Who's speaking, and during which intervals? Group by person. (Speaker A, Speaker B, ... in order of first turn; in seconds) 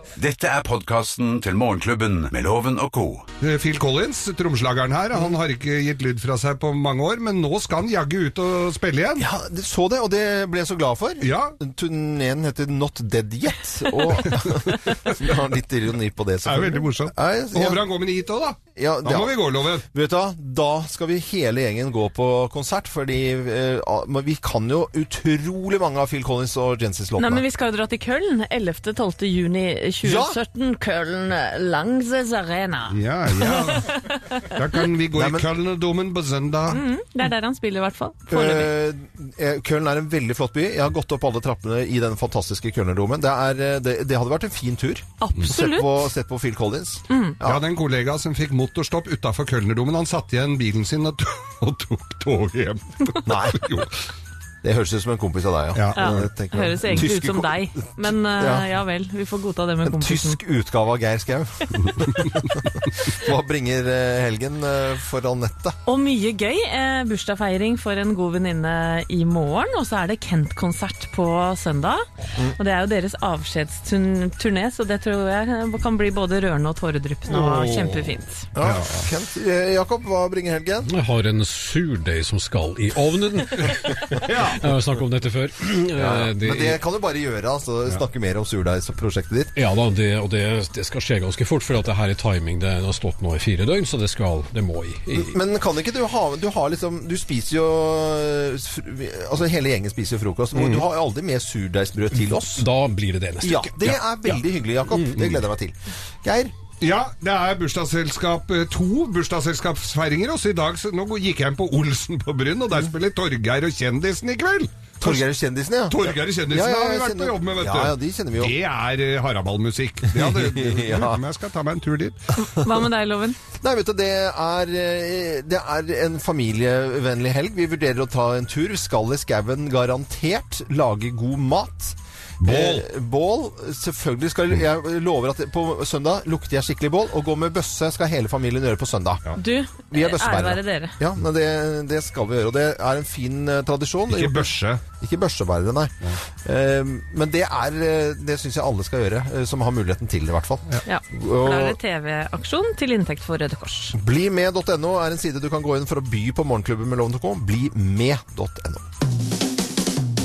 Speaker A: 0.2-3.3
Speaker B: 3.4-9.3, 11.2-11.6, 14.2-15.3, 16.4-19.9, 32.9-36.8, 47.4-53.9, 55.8-56.3, 77.3-79.1, 83.7-84.6, 106.8-115.2, 115.9-122.2, 132.4-132.9, 144.1-144.8
Speaker C: 9.2-17.8, 18.8-27.4, 30.0-30.4, 35.1-35.5, 38.3-47.6, 53.3-53.6, 54.6-58.7, 59.9-65.8, 78.6-80.9, 85.9-89.6, 95.1-102.7, 103.4-106.5, 115.0-118.6, 120.1-121.2, 123.6-139.2, 139.9-151.8, 153.9-158.9
Speaker D: 27.2-33.9, 36.7-38.7, 45.2-46.0, 47.1-47.4, 56.0-60.4, 65.9-72.1, 72.6-78.5, 122.4-123.4, 139.4-141.0, 150.8-154.0
Speaker E: 80.9-86.8, 89.6-95.3, 100.6-100.8, 102.4-103.9, 104.9-105.3